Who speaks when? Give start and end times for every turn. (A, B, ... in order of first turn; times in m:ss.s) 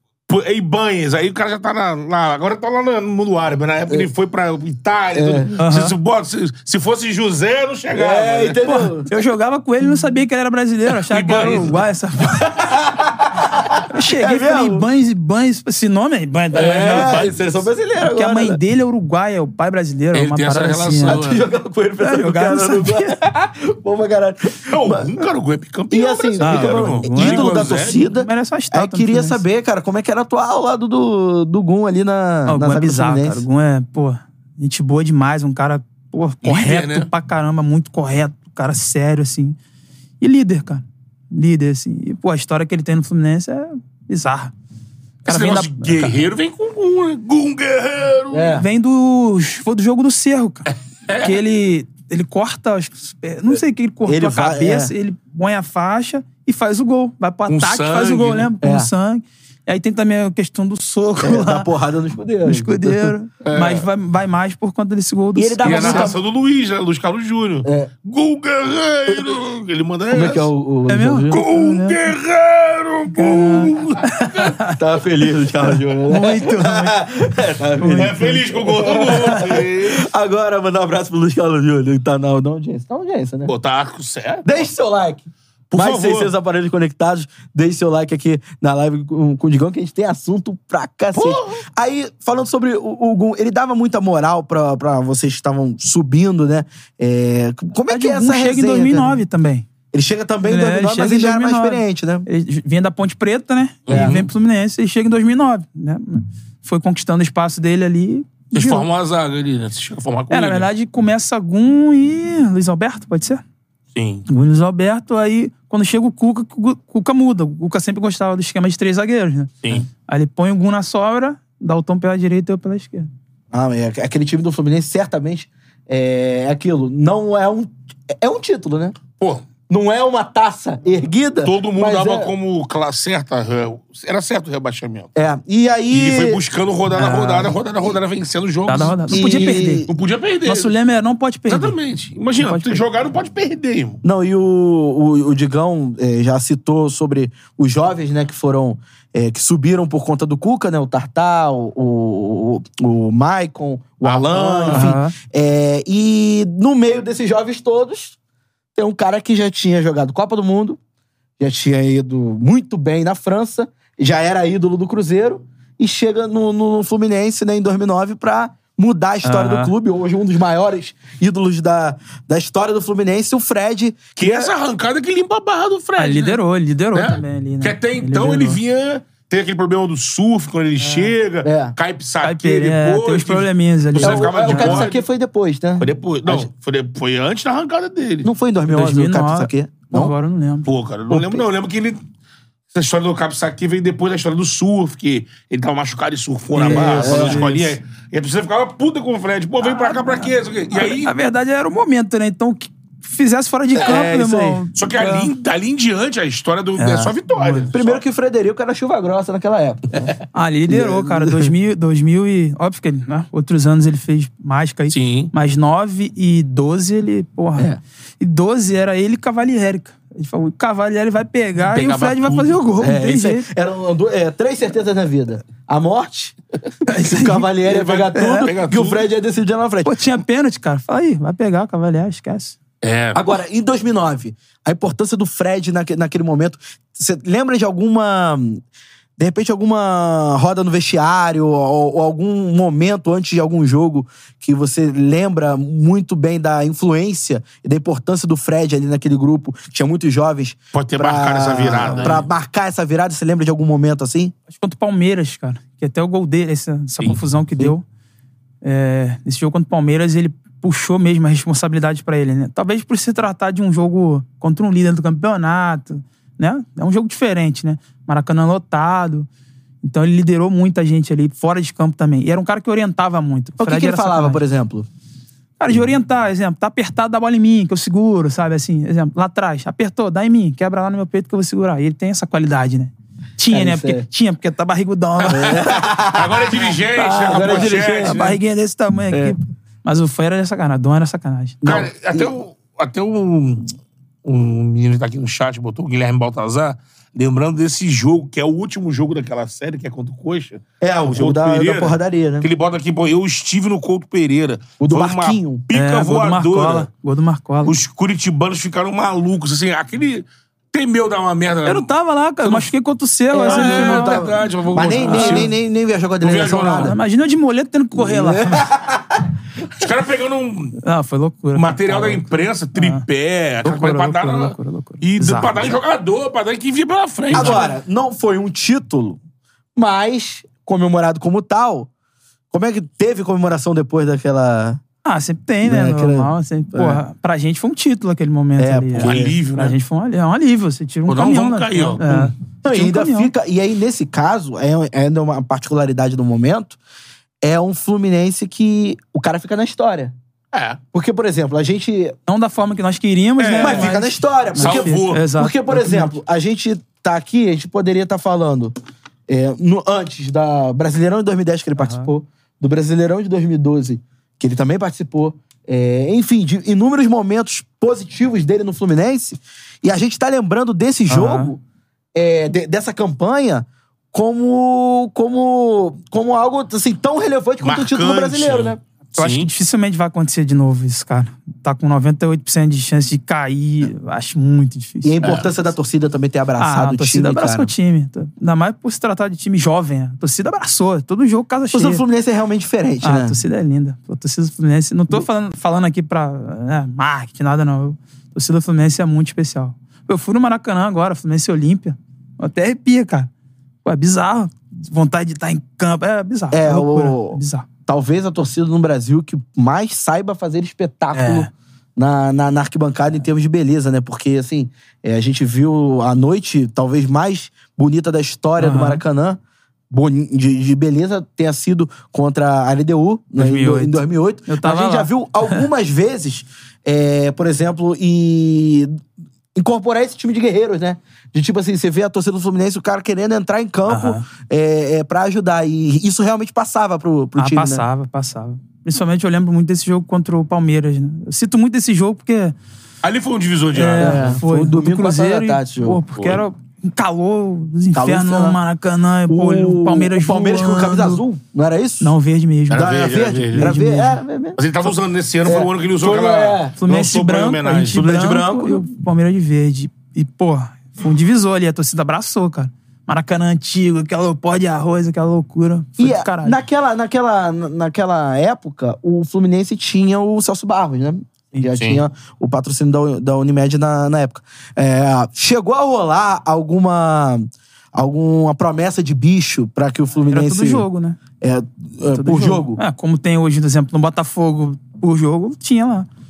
0:00.3-0:08.6 A
0:05.1-0:05.5 B
0:05.6-0:05.9 C
0:07.9-0:09.1 B
0:08.6-0:12.5 C
0:11.0-0:11.8 A
0:12.5-0:14.9 B
0:13.9-0:17.2 C
0:16.5-0:18.6 B
0:16.5-0:17.4 A
0:18.0-0:21.2 C
0:20.1-0:21.4 A
0:21.0-0:25.3 B
0:22.0-0:23.2 C
0:24.7-0:28.0 A
0:25.9-0:33.5 B
0:26.4-0:29.4 C
0:32.5-0:39.6 C
0:36.4-0:37.1 A
0:40.2-0:44.5 C
0:45.2-0:48.6 A
0:45.3-0:46.3 C
0:48.3-0:48.7 B
0:48.6-1:01.7 C
0:51.1-0:51.3 A
0:54.1-0:54.9 B
0:57.5-0:58.5 A
0:58.6-0:58.9 B
1:01.2-1:03.1 B
1:02.4-1:06.1 C
1:03.4-1:03.9 A
1:05.4-1:06.2 B
1:05.6-1:10.5 A
1:07.6-1:07.9 B
1:09.1-1:09.4 B
1:10.1-1:11.4 B
1:10.9-1:12.0 C
1:11.3-1:14.6 A
1:13.1-1:14.8 C
1:14.8-1:23.5 B
1:16.1-1:17.1 C
1:17.8-1:19.4 C
1:18.0-1:20.1 A
1:23.5-1:24.6 A
1:24.4-1:39.2 B
1:25.7-1:26.3 A
1:31.1-1:31.6 A
1:37.9-1:39.7 C
1:39.9-1:42.3 B
1:40.4-1:48.9 C
1:43.9-1:44.3 A
1:43.9-1:44.2 B
1:48.5-1:50.7 A
1:50.3-1:53.4 C
1:54.0-1:54.2 A
1:54.3-1:59.5 C
2:00.1-2:03.1 C
2:03.5-2:09.0 B
2:09.2-2:09.4 A
2:09.7-2:12.3 B
2:11.4-2:15.1 A
2:15.2-2:16.4 B
2:15.9-2:20.7 A
2:16.9-2:17.6 C
2:18.7-2:19.9 C
2:19.1-2:19.9 B
2:20.4-2:21.8 C
2:21.5-2:24.0 A
2:22.4-2:22.8 C
2:24.0-2:38.2 B
2:34.0-2:34.9 A
2:34.7-2:35.1 C
2:38.8-2:40.8 B
2:41.4-2:54.5 B
2:49.2-2:49.7 C
2:54.2-2:56.4 A
2:56.0-2:58.6 C
2:56.9-3:05.0 A
3:00.8-3:01.1 C
3:01.4-3:01.8 B
3:02.2-3:04.9 C
3:04.0-3:06.5 B
3:05.8-3:08.3 A
3:08.2-3:10.1 B
3:08.7-3:10.7 C
3:10.7-3:12.0 A
3:11.1-3:11.4 B
3:12.7-3:21.2 A
3:16.6-3:17.8 C
3:16.6-3:17.5 B
3:19.7-3:25.3 C
3:23.8-3:24.1 A
3:23.8-3:24.6 B
3:24.8-3:28.0 A
3:26.8-3:27.7 C
3:27.7-3:30.1 B
3:30.3-3:43.5 C
3:30.7-3:31.5 B
3:34.9-3:35.3 A
3:41.6-3:42.6 A
3:42.8-3:50.0 B
3:46.9-3:47.5 C
3:47.6-3:49.1 A
3:48.2-3:48.5 C
3:49.8-3:52.6 C
3:52.8-3:53.4 A
3:53.1-3:58.6 B
3:59.2-4:14.3 B
4:10.7-4:12.3 A
4:11.8-4:12.2 C
4:14.5-4:17.8 C
4:18.6-4:29.3 C
4:29.8-4:34.4 C
4:33.6-4:34.9 B
4:35.6-4:45.6 C
4:43.5-4:44.1 B
4:45.3-4:48.3 A
4:45.3-4:48.4 B
4:47.0-4:51.6 C
4:49.1-4:49.4 B
4:51.6-4:52.4 B
4:51.6-5:06.9 A
5:00.8-5:02.5 B
5:04.8-5:05.6 B
5:05.7-5:07.7 C
5:07.7-5:11.9 A
5:11.7-5:15.5 C
5:12.4-5:12.7 A
5:13.3-5:17.0 B
5:13.4-5:15.5 A
5:16.2-5:17.0 A
5:16.7-5:18.7 C
5:18.0-5:19.2 B
5:19.8-5:20.8 A
5:20.8-5:23.0 C
5:21.6-5:27.7 A
5:23.6-5:25.7 C
5:27.3-5:29.2 B
5:27.3-5:27.6 C
5:29.8-5:31.9 B
5:32.5-5:34.8 B
5:35.0-5:43.3 C
5:35.6-5:37.0 B
5:38.6-5:39.4 B
5:39.0-5:39.8 A
5:41.1-5:42.3 A
5:42.6-5:46.8 B
5:47.4-5:50.2 B
5:50.5-5:50.8 A
5:50.9-5:52.2 B
5:52.3-5:56.2 C
5:53.4-5:54.0 A
5:53.6-5:58.7 B
5:54.6-5:55.2 A
5:59.3-6:11.6 B
6:01.8-6:02.1 C
6:11.1-6:11.5 C
6:12.2-6:18.8 B
6:17.6-6:19.5 A
6:19.2-6:25.3 C
6:25.0-6:27.7 B
6:26.6-6:32.0 C
6:31.7-6:33.4 B
6:33.0-6:43.3 C
6:43.8-6:47.7 C
6:46.5-7:09.0 B
6:51.1-6:51.5 C
6:58.6-6:59.0 C
7:03.4-7:05.6 C
7:09.6-7:17.8 B
7:13.9-7:14.2 C
7:17.4-7:22.6 C
7:23.0-7:24.4 A
7:23.7-7:31.2 C
7:24.0-7:26.0 B
7:26.2-7:26.4 A
7:27.9-7:28.6 B
7:29.3-7:32.2 B
7:32.0-7:33.0 C
7:32.7-7:33.8 A
7:32.8-7:36.8 B
7:33.6-7:34.2 C
7:34.6-7:38.0 A
7:36.8-7:46.6 C
7:37.9-7:38.8 B
7:46.0-8:00.9 B
7:51.8-7:52.0 A
8:00.3-8:01.2 C
8:01.4-8:02.8 B
8:02.1-8:06.1 C